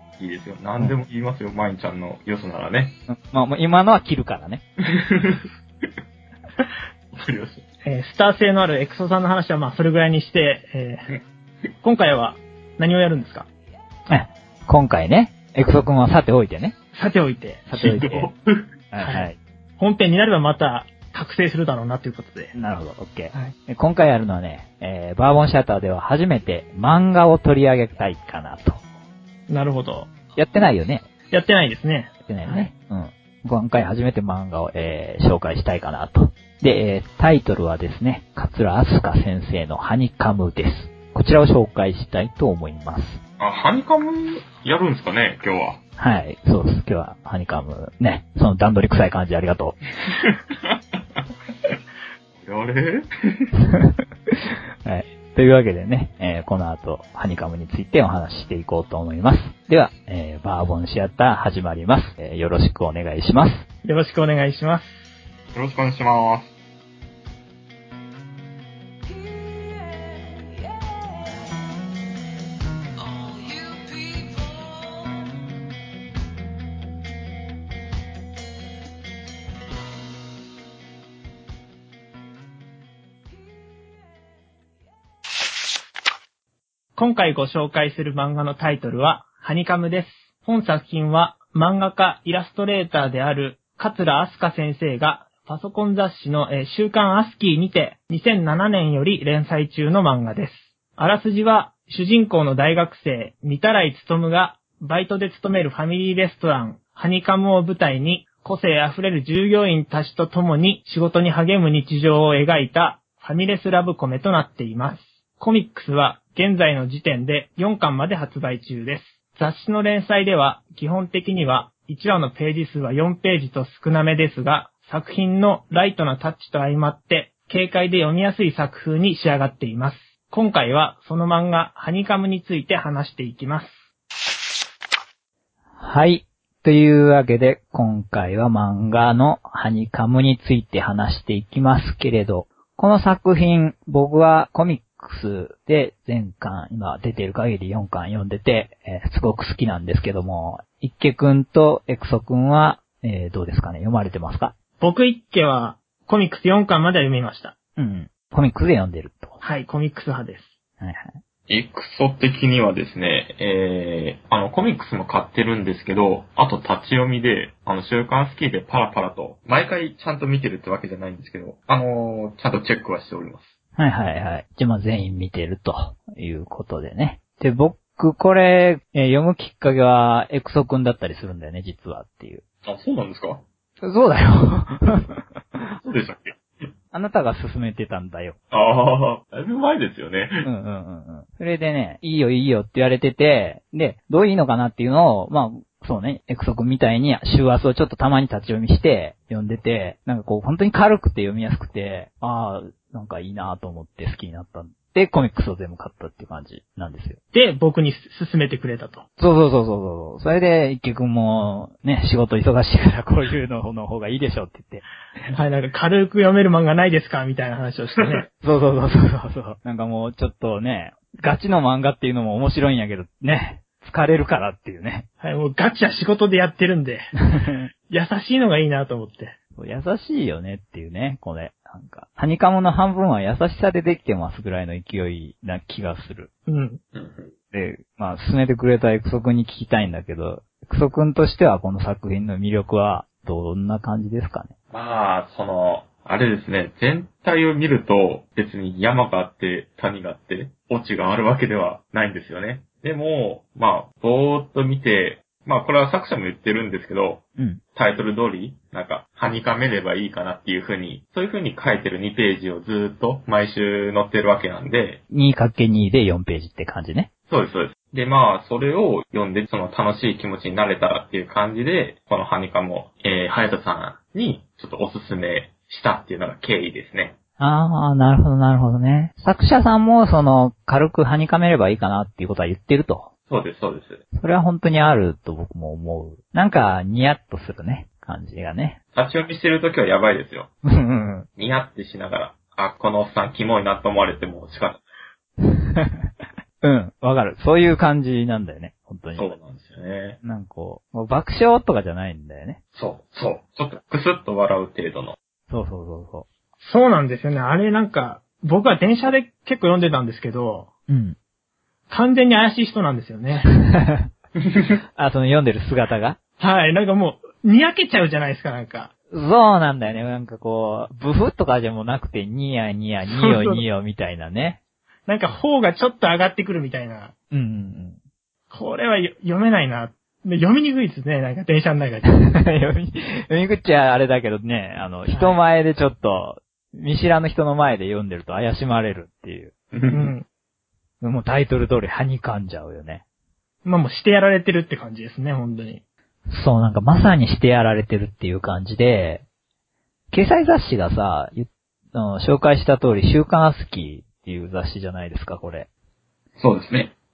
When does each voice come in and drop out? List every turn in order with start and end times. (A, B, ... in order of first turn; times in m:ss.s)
0:00.2-0:03.0 A
0:03.1-0:04.6 B
0:04.9-0:05.9 A
0:07.1-0:07.6 A
0:07.8-0:11.1 C
0:11.8-0:13.5 C
0:14.1-0:16.7 B
0:16.9-0:17.6 C
0:17.7-0:18.3 B
0:17.8-0:18.7 A
0:18.9-0:19.4 B
0:19.0-0:19.3 C
0:19.8-0:22.5 C
0:22.5-0:28.8 B
0:29.5-0:30.1 C
0:30.4-0:31.0 B
0:31.3-0:32.7 C
0:32.3-0:43.2 B
0:43.4-0:45.8 A
0:46.0-0:49.8 B
0:50.3-0:51.7 A
0:52.4-0:53.5 A
0:53.6-1:03.6 B
1:03.8-1:05.1 C
1:05.5-1:06.5 A
1:27.0-2:13.8 C
2:15.8-2:34.5 B
2:34.8-2:37.5 C
2:37.8-2:39.4 B
2:39.4-2:40.5 C
2:40.8-2:41.2 B
2:41.5-2:53.6 A
2:53.8-3:02.4 B
3:02.6-3:03.4 A
3:03.8-3:05.7 B
3:05.8-3:06.7 A
3:06.9-3:08.4 B
3:08.5-3:10.4 A
3:10.4-3:27.2 B
3:27.3-3:29.0 C
3:29.2-3:34.8 B
3:35.3-3:38.2 C
3:38.4-3:45.0 B
3:45.2-3:47.1 C
3:47.3-3:47.7 B
3:47.9-3:49.3 C
3:49.6-3:56.3 B
3:56.5-3:56.8 C
3:56.9-3:57.3 A
3:57.5-4:04.5 B
4:04.7-4:17.2 A
4:17.7-4:25.0 A
4:25.1-4:27.1 B
4:27.3-4:37.2 A
4:37.4-4:43.1 B
4:43.3-4:44.0 A
4:44.1-4:48.8 B
4:48.9-4:50.5 A
4:50.6-4:51.3 B
4:51.4-4:54.8 A
4:55.4-4:56.1 B
4:56.6-4:59.3 B
4:59.2-5:00.2 A
5:00.2-5:02.6 B
5:02.7-5:05.2 A
5:05.5-5:06.3 B
5:06.6-5:10.7 C
5:10.9-5:11.2 B
5:11.9-5:13.5 C
5:13.6-5:14.1 B
5:15.0-5:16.2 B
5:16.4-5:18.9 C
5:19.1-5:24.6 B
5:23.1-5:23.6 C
5:25.1-5:27.1 C
5:27.3-5:28.0 B
5:28.5-5:32.1 C
5:32.0-5:39.5 B
5:35.1-5:35.4 C
5:39.7-5:40.1 A
5:39.9-5:40.2 C
5:41.0-5:43.0 B
5:43.6-5:45.8 C
5:46.3-5:49.2 B
5:50.1-5:55.7 B
5:56.4-5:56.9 A